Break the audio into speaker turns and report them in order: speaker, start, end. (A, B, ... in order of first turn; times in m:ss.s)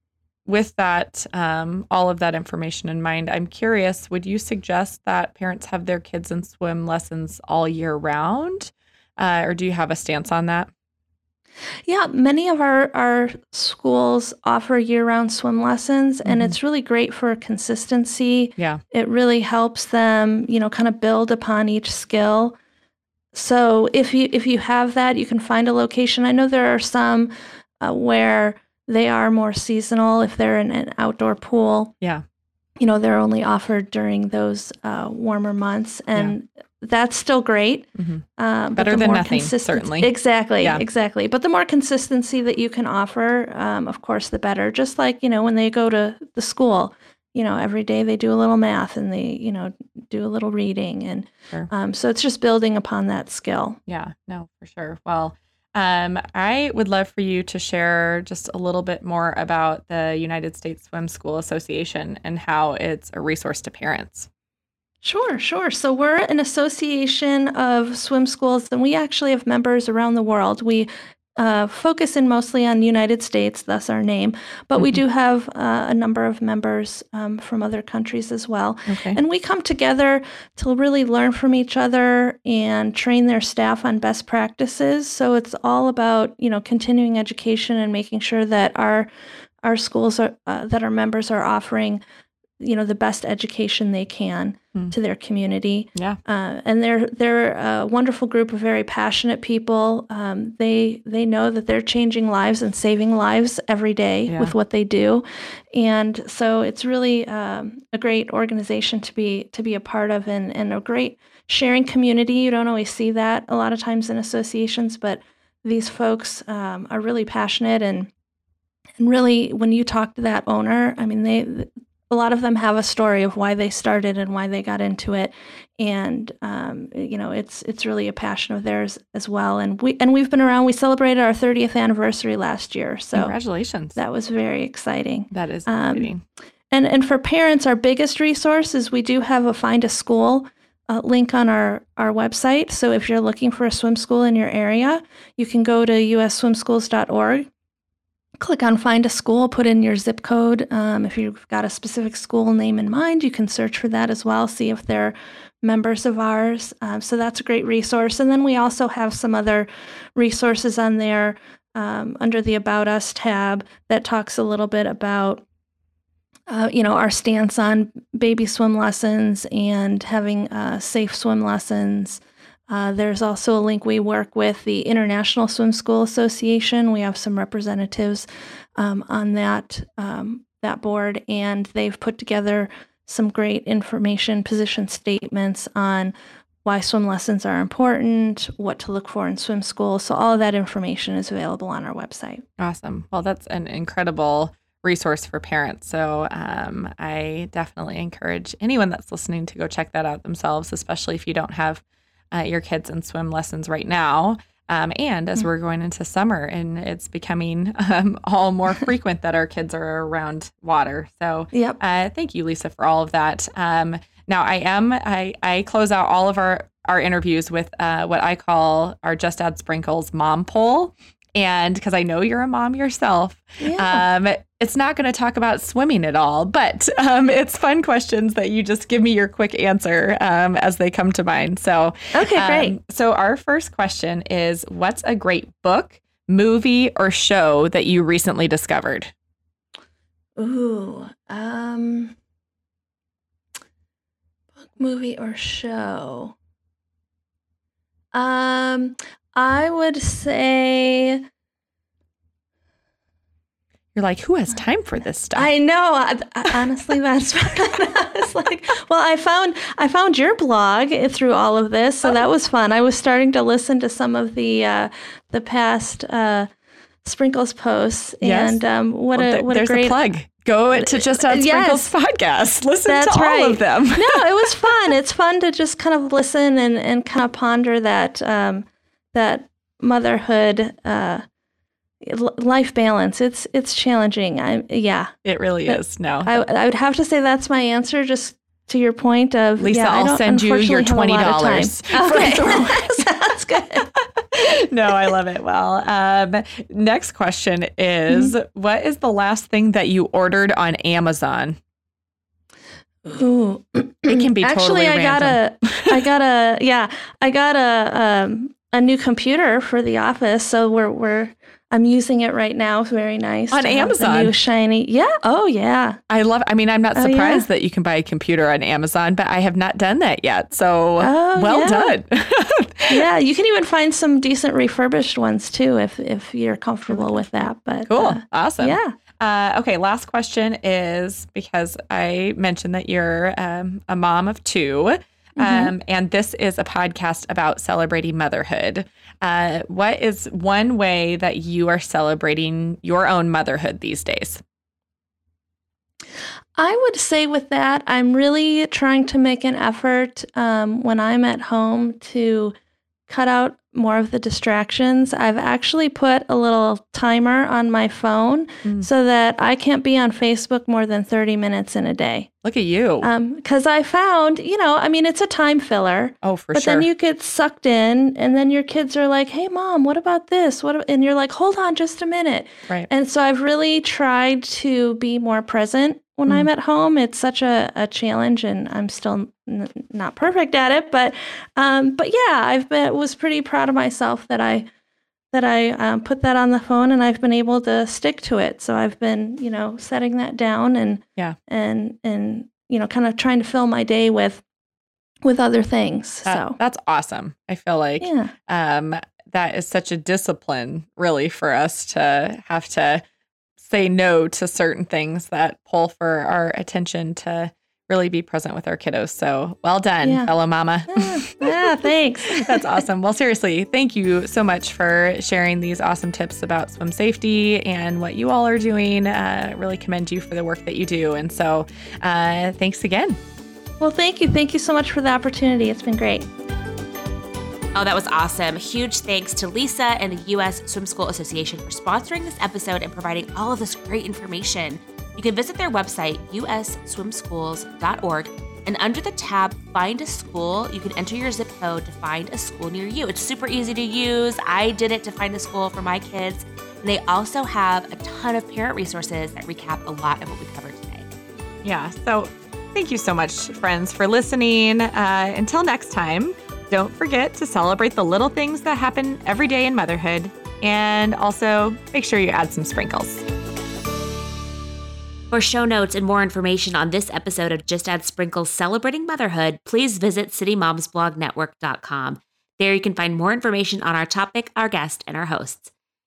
0:00.4-0:10.7 A
0:11.8-0:22.6 B
0:16.2-0:16.5 A
0:18.6-0:18.8 A
0:23.3-0:31.9 B
0:32.8-0:53.8 B
0:38.0-0:40.8 A
0:53.9-1:04.3 A
1:05.0-1:29.1 B
1:18.9-1:19.2 A
1:29.6-1:32.0 B
1:32.6-1:58.1 B
1:44.3-1:44.5 A
1:59.0-2:13.3 B
2:13.1-2:14.0 A
2:13.9-2:16.1 B
2:15.3-2:16.2 A
2:16.7-2:27.5 B
2:28.4-2:45.4 B
2:46.5-3:06.1 B
3:06.6-3:12.4 B
3:12.6-3:59.1 A
3:31.5-3:31.8 B
3:43.6-3:44.0 B
3:52.1-3:52.8 B
4:00.4-4:02.1 B
4:04.6-4:06.4 B
4:08.1-4:11.2 B
4:13.9-4:15.5 A
4:15.3-4:26.5 B
4:27.0-4:30.0 B
4:28.2-4:28.6 A
4:29.1-4:34.9 A
4:30.7-4:31.9 B
4:32.8-4:41.2 B
4:42.0-4:45.1 B
4:45.2-4:46.3 A
4:45.6-4:53.9 B
4:49.6-4:53.1 A
4:54.0-5:01.6 A
4:58.1-4:58.3 B
5:03.0-5:16.0 B
5:04.1-5:06.0 A
5:13.5-5:14.3 A
5:16.1-5:23.0 A
5:16.9-5:17.5 B
5:21.0-5:22.0 B
5:22.9-5:28.9 B
5:26.9-5:27.2 A
5:27.9-5:44.4 A
5:35.4-5:35.7 B
5:46.6-5:52.5 B
5:53.1-6:02.3 B
6:02.4-6:03.1 A
6:03.0-6:24.7 B
6:06.2-6:06.9 A
6:25.3-6:34.4 B
6:35.2-6:36.6 B
6:36.2-6:43.0 A
6:38.0-6:38.3 B
6:43.6-6:51.6 A
6:50.0-6:50.3 B
6:50.9-6:52.8 B
6:52.3-7:03.2 A
7:03.8-7:06.3 B
7:07.7-7:31.1 C
7:31.6-7:43.2 A
7:45.3-7:55.7 C